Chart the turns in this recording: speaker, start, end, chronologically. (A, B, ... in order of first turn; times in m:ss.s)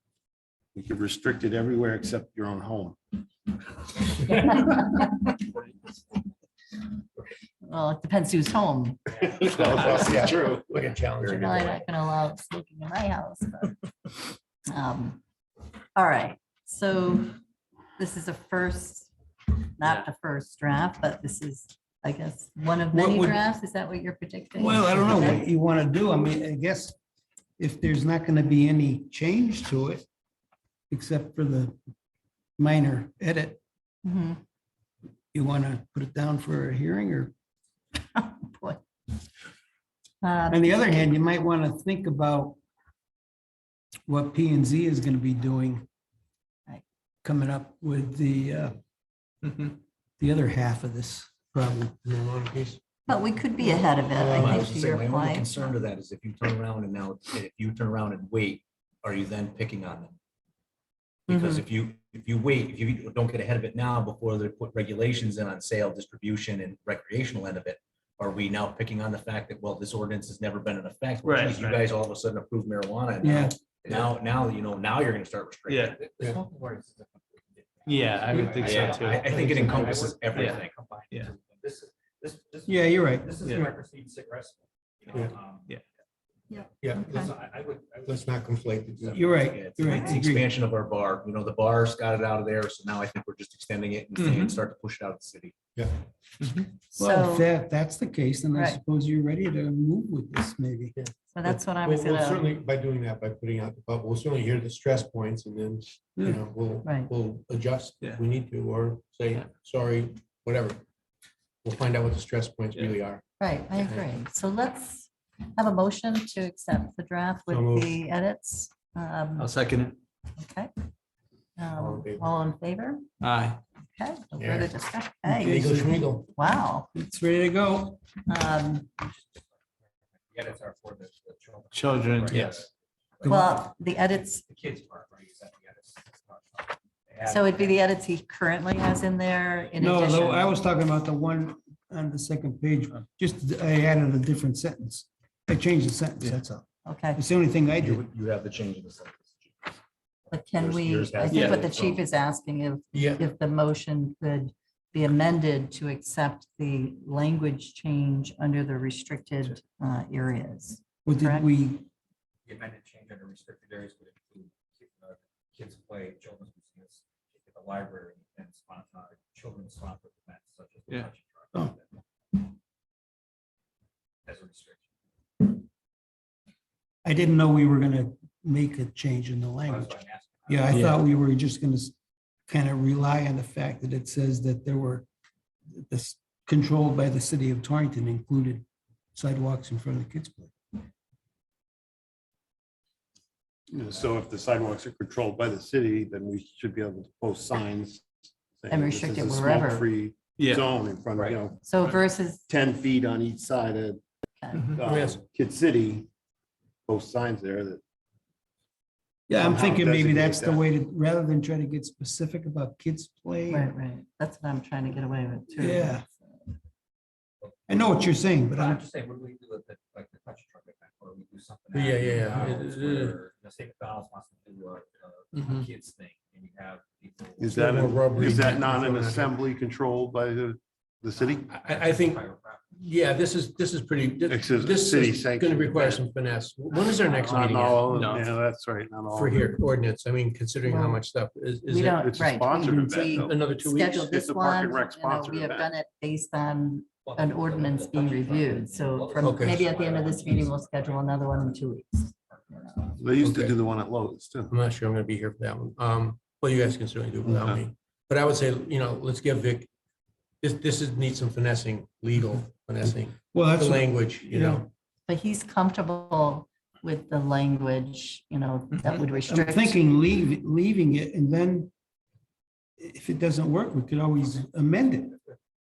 0:00.7-0:03.0 A
0:04.3-0:05.0 B
0:07.6-0:09.0 B
0:09.5-0:11.8 C
0:09.6-0:10.5 B
0:11.2-0:13.8 B
0:14.7-0:15.2 B
0:15.9-0:17.4 B
0:18.0-0:19.1 B
0:19.8-0:25.4 B
0:22.9-0:23.4 D
0:24.6-0:26.9 D
0:27.6-0:30.0 D
0:30.9-0:31.8 D
0:32.6-0:33.6 D
0:34.0-0:34.4 B
0:35.3-0:37.3 D
0:38.1-0:38.8 B
0:40.2-0:41.0 B
0:40.5-0:42.6 D
0:44.1-0:45.8 D
0:47.2-0:48.8 D
0:50.2-0:52.0 D
0:52.0-0:52.8 C
0:53.1-0:55.8 B
0:54.1-0:54.7 C
0:54.4-1:00.2 E
1:01.3-1:16.0 E
1:01.3-1:01.6 B
1:11.2-1:11.8 F
1:13.2-1:13.6 D
1:13.8-1:14.2 G
1:15.7-1:16.0 F
1:15.8-1:25.8 G
1:17.9-1:19.3 F
1:18.5-1:20.7 E
1:20.4-1:20.6 F
1:22.7-1:23.7 D
1:26.6-1:27.3 B
1:26.8-1:27.3 C
1:26.9-1:28.5 G
1:28.0-1:29.2 C
1:29.1-1:35.6 E
1:29.1-1:30.5 D
1:29.8-1:30.2 B
1:34.2-1:34.5 F
1:36.9-1:37.5 B
1:37.0-1:40.9 D
1:38.5-1:38.8 B
1:41.0-1:50.8 C
1:41.3-1:42.5 B
1:46.8-1:47.1 B
1:51.6-1:53.2 C
1:53.4-1:59.5 B
1:57.5-1:57.9 C
1:59.4-1:59.9 F
2:00.4-2:00.7 B
2:01.6-2:03.0 B
2:01.7-2:02.3 C
2:03.2-2:03.6 F
2:03.9-2:05.8 B
2:04.4-2:04.7 C
2:05.2-2:06.0 D
2:05.4-2:06.3 C
2:06.3-2:06.9 B
2:06.9-2:08.0 D
2:08.3-2:08.9 B
2:09.2-2:09.4 G
2:10.3-2:13.4 G
2:11.7-2:12.6 F
2:13.2-2:13.6 D
2:13.2-2:14.4 B
2:14.4-2:17.8 G
2:17.2-2:20.6 B
2:19.8-2:28.0 D
2:26.8-2:27.2 B
2:27.8-2:29.7 E
2:30.3-2:41.5 B
2:30.6-2:32.0 E
2:32.9-2:33.2 C
2:41.0-2:41.9 D
2:42.4-2:51.8 G
2:54.2-2:54.8 G
2:57.0-3:01.9 D
2:59.6-3:01.0 G
3:02.5-3:05.0 D
3:05.7-3:10.5 D
3:13.7-3:18.1 A
3:18.6-3:21.7 A
3:18.7-3:19.8 B
3:20.4-3:20.7 F
3:21.1-3:21.4 G
3:21.6-3:22.4 B
3:22.5-3:24.0 A
3:24.4-3:24.8 B
3:24.7-3:26.1 A
3:24.8-3:25.2 C
3:26.8-3:27.8 A
3:29.3-3:33.7 D
3:29.3-3:30.6 A
3:33.5-3:36.5 B
3:35.6-3:36.0 D
3:37.7-3:38.8 D
3:38.5-3:48.3 G
3:41.7-3:43.2 C
3:47.4-3:51.5 A
3:47.5-3:49.3 C
3:51.1-3:52.8 G
3:51.5-3:52.2 C
3:52.7-3:57.9 C
3:54.3-3:56.1 A
3:57.2-3:59.6 A
3:57.9-3:58.2 F
3:59.1-4:02.2 C
4:00.7-4:01.0 B
4:01.7-4:12.9 B
4:01.9-4:03.3 A
4:03.1-4:04.0 C
4:04.0-4:05.7 A
4:07.0-4:11.6 G
4:09.2-4:09.6 C
4:12.3-4:13.0 G
4:13.0-4:14.5 A
4:13.2-4:13.6 C
4:14.5-4:19.7 C
4:17.3-4:17.6 A
4:20.4-4:24.7 C
4:23.3-4:24.6 D
4:25.1-4:29.8 B
4:29.2-4:31.7 D
4:32.8-4:35.2 D